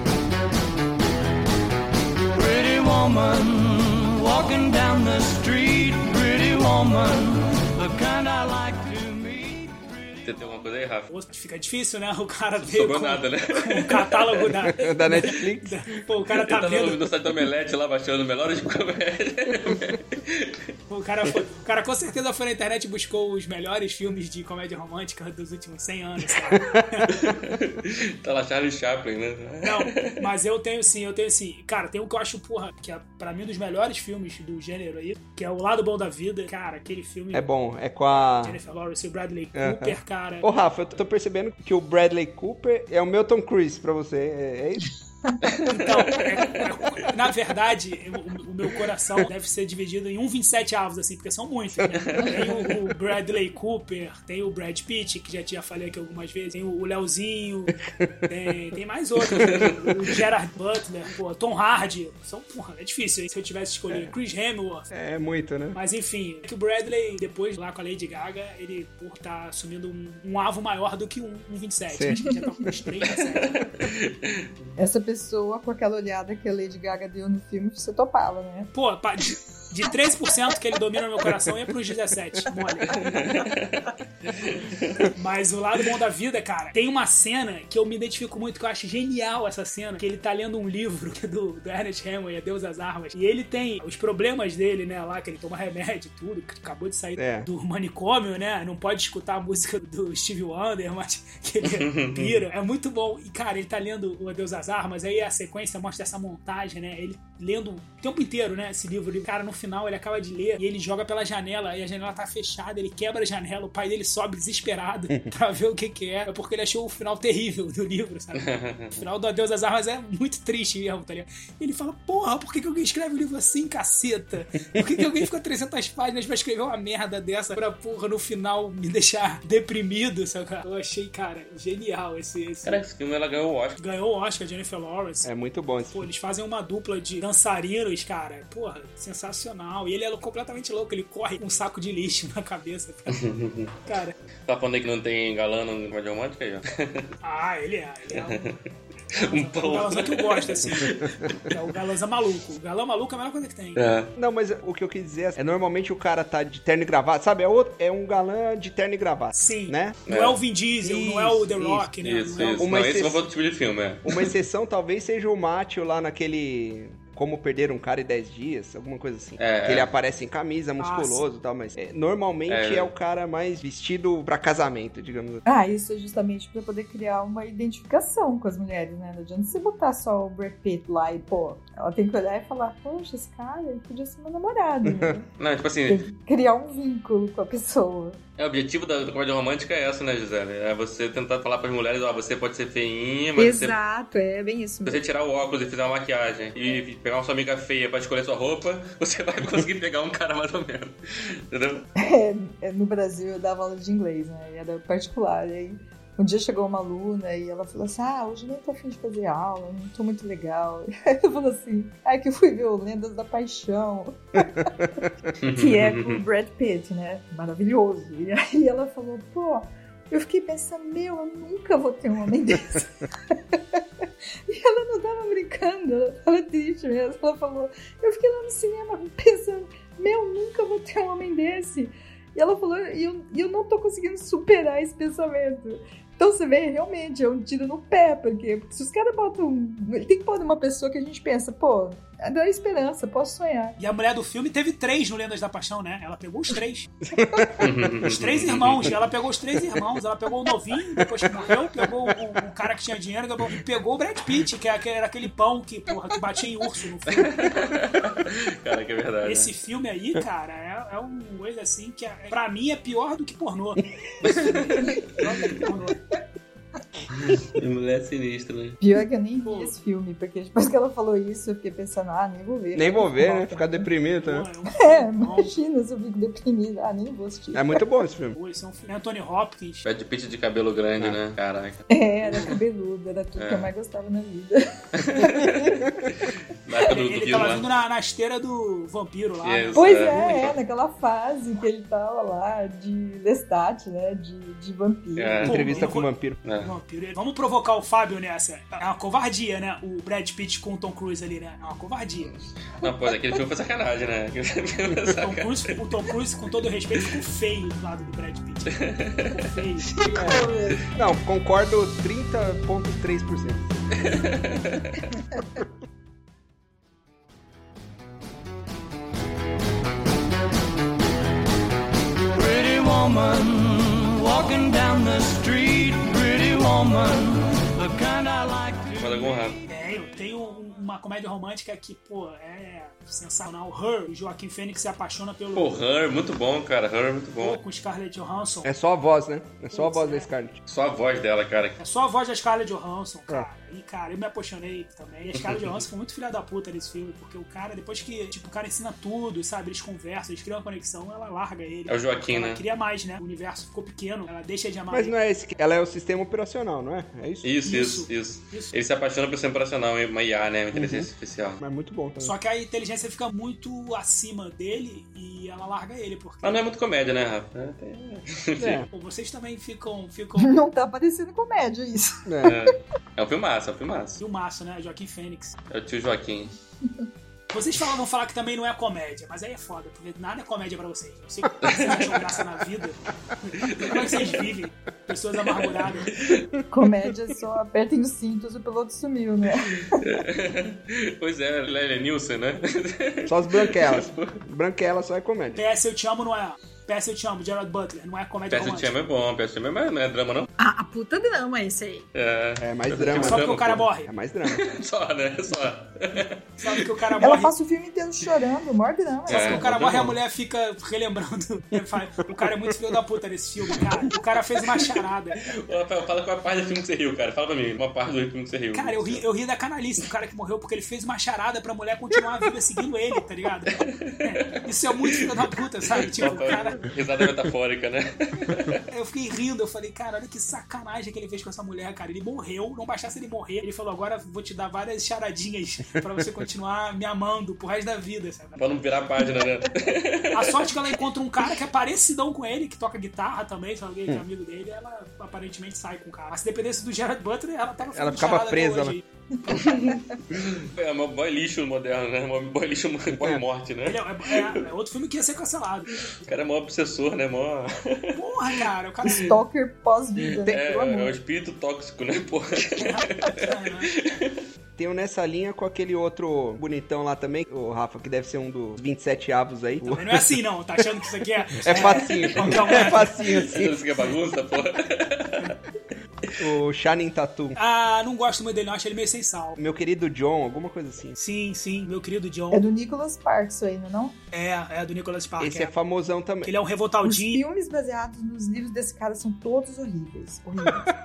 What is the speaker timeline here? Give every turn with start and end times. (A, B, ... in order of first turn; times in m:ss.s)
0:02.3-0:10.7 A
0:10.2-0:11.1 B
0:11.1-0:17.1 C
0:12.6-0:14.6 B
0:14.8-0:15.8 D
0:16.3-0:20.6 B
0:20.9-0:27.2 C
0:26.5-0:27.1 D
0:27.1-0:30.3 B
0:29.6-0:37.4 C
0:37.3-0:38.6 D
0:38.4-0:40.5 C
0:39.6-0:44.9 D
0:45.7-1:04.9 C
0:52.0-0:52.5 B
0:59.3-0:59.7 B
1:04.9-1:05.8 D
1:05.7-1:13.7 C
1:11.9-1:12.2 D
1:13.4-1:14.5 B
1:14.8-1:18.7 E
1:18.7-1:23.5 C
1:23.0-1:25.1 B
1:25.2-2:12.8 C
1:37.2-1:37.5 D
1:41.6-1:42.4 B
1:58.4-1:59.0 B
2:12.6-2:13.8 B
2:13.8-2:15.3 C
2:15.2-2:16.1 D
2:15.9-2:23.2 C
2:23.1-2:23.8 B
2:23.9-2:24.2 C
2:24.5-2:27.1 B
2:27.2-2:28.5 C
2:28.1-2:28.6 B
2:29.1-2:31.4 B
2:29.2-2:33.8 C
2:33.8-2:34.1 B
2:34.2-2:40.0 D
2:39.3-2:42.8 C
2:40.1-2:40.4 B
2:40.8-2:41.9 D
2:42.0-2:44.3 B
2:42.6-2:43.2 D
2:44.0-2:55.4 D
2:49.4-2:49.9 B
2:50.8-2:51.2 C
2:52.5-2:52.9 B
2:55.4-3:05.3 E
3:04.8-3:05.2 D
3:05.4-3:06.0 B
3:05.9-3:08.2 E
3:08.4-3:13.8 B
3:13.4-3:15.0 E
3:14.9-3:21.9 B
3:22.0-3:34.7 E
3:34.8-3:35.3 D
3:35.4-3:36.2 B
3:35.4-3:42.9 E
3:43.6-3:43.8 E
3:44.5-4:03.8 E
4:03.8-4:06.9 C
4:07.2-4:07.7 D
4:07.6-4:08.9 B
4:08.0-4:17.3 C
4:11.0-4:12.1 D
4:17.1-4:19.5 B
4:19.2-4:26.0 C
4:24.2-4:25.2 B
4:27.1-4:28.8 B
4:28.8-4:33.9 E
4:29.4-4:29.8 C
4:32.7-4:34.5 D
4:34.2-4:35.5 C
4:34.8-4:37.8 E
4:37.5-4:38.4 D
4:38.4-4:39.9 C
4:39.8-4:41.8 B
4:41.9-4:45.9 E
4:43.4-4:43.7 B
4:45.0-4:45.6 B
4:46.6-4:47.7 B
4:46.8-4:50.4 C
4:49.4-4:50.6 B
4:49.8-4:55.6 E
4:55.2-4:55.8 B
4:55.4-4:56.4 D
4:55.4-5:02.4 C
4:56.4-4:56.7 B
5:02.8-5:05.8 B
5:05.2-5:08.8 C
5:08.7-5:09.5 B
5:09.4-5:10.0 C
5:09.9-5:10.9 E
5:10.2-5:13.8 D
5:14.0-5:15.0 B
5:22.3-5:29.6 A
5:29.0-5:29.6 B
5:29.7-5:35.8 C
5:35.6-5:37.6 B
5:37.4-5:38.7 C
5:38.6-5:40.6 D
5:39.7-5:40.3 C
5:40.7-5:41.8 B
5:41.8-5:55.1 C
5:51.9-5:52.6 B
5:54.9-5:57.5 D
5:57.4-6:01.6 B
5:57.6-5:58.7 C
6:00.7-6:01.1 D
6:01.6-6:02.4 D
6:02.2-6:06.6 C
6:06.4-6:08.8 B
6:08.6-6:08.9 D
6:08.9-6:10.5 C
6:10.4-6:12.2 E
6:12.3-6:12.6 D
6:12.4-6:14.2 B
6:14.2-6:15.6 C
6:15.7-6:16.5 B
6:17.5-6:23.0 C
6:21.6-6:22.2 B
6:23.6-6:26.1 C
6:23.6-6:24.4 B
6:26.1-6:26.5 B
6:26.7-6:30.2 E
6:29.9-6:34.4 B
6:33.3-6:35.6 D
6:35.6-6:38.9 C
6:38.5-6:40.5 B
6:40.6-6:42.0 E
6:42.1-6:43.9 B
6:42.6-6:44.6 D
6:43.1-6:44.1 C
6:44.5-6:46.9 B
6:46.6-6:47.5 C
6:47.2-6:49.7 E
6:49.3-6:50.2 B
6:49.3-6:55.4 C
6:55.4-6:59.2 B
6:58.7-7:06.9 C
7:03.7-7:08.8 B
7:08.9-7:18.7 C
7:18.6-7:20.9 B
7:20.3-7:29.8 C
7:27.9-7:29.0 D
7:29.4-7:30.0 E
7:29.5-7:34.6 B
7:33.8-7:36.0 C
7:36.1-7:39.2 B
7:38.2-7:39.4 C
7:39.1-7:41.1 E
7:40.4-7:44.4 B
7:42.8-7:43.9 C
7:44.8-7:50.4 D
7:49.9-7:53.3 C
7:51.6-7:53.8 D
7:52.4-7:55.6 B
7:56.4-7:57.6 D
7:57.6-7:59.6 C
7:59.6-8:01.2 D
8:01.2-8:02.6 C
8:02.5-8:04.2 E
8:04.3-8:05.7 C
8:05.4-8:06.5 D
8:06.4-8:07.4 C
8:07.0-8:10.9 E